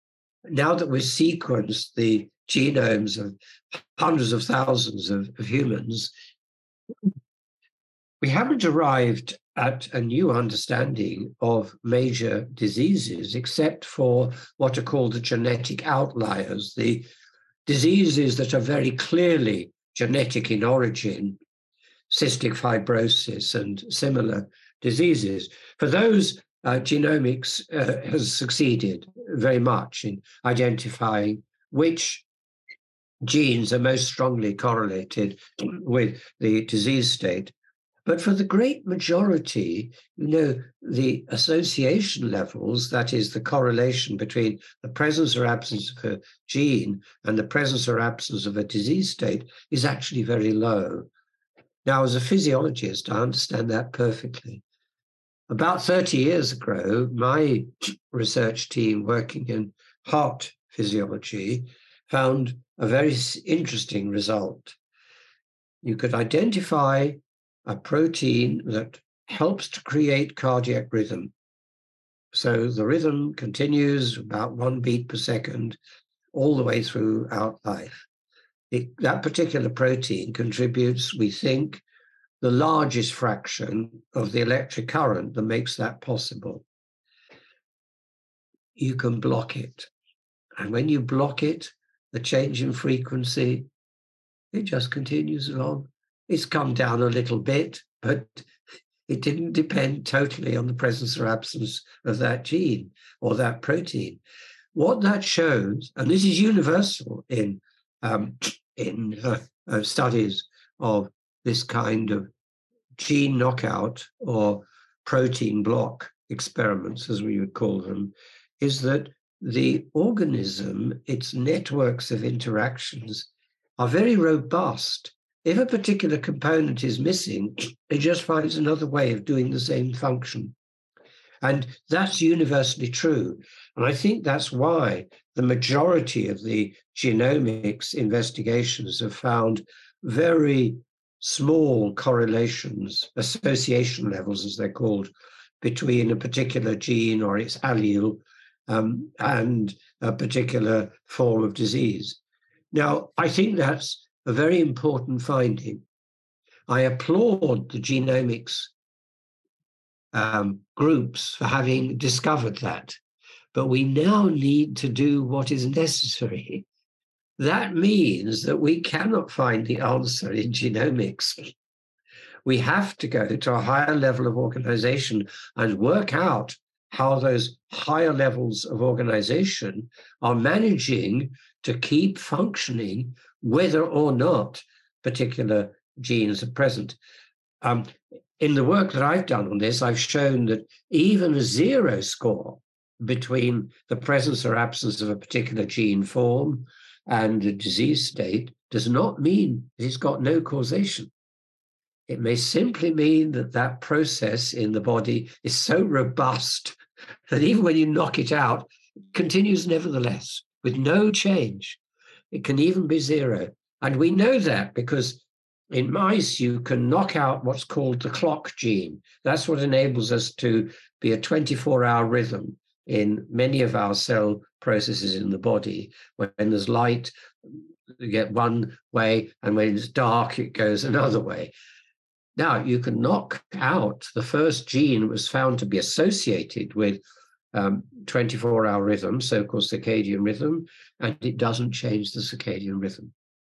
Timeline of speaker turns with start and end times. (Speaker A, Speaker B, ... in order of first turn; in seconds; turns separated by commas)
Speaker A: 0.5-6.1, Speaker A: 8.2-17.1, Speaker A: 17.7-21.4, Speaker A: 22.1-32.2, Speaker A: 33.2-37.5, Speaker A: 38.0-51.1, Speaker A: 51.8-54.6, Speaker A: 55.5-64.8, Speaker A: 65.8-71.3, Speaker A: 72.3-75.8, Speaker A: 76.3-78.0, Speaker A: 78.7-81.8, Speaker A: 82.4-86.6, Speaker A: 88.8-89.9, Speaker A: 90.6-93.7, Speaker A: 94.5-98.5, Speaker A: 99.1-104.2, Speaker A: 104.7-112.3, Speaker A: 113.0-130.5, Speaker A: 131.4-152.2, Speaker A: 152.7-155.8, Speaker A: 156.7-158.7, Speaker A: 160.1-163.0, Speaker A: 163.5-166.6, Speaker A: 167.4-171.5, Speaker A: 172.4-187.0, Speaker A: 187.6-201.1, Speaker A: 202.1-211.8, Speaker A: 212.3-227.1, Speaker A: 228.0-231.5, Speaker A: 232.4-237.0, Speaker A: 237.5-243.1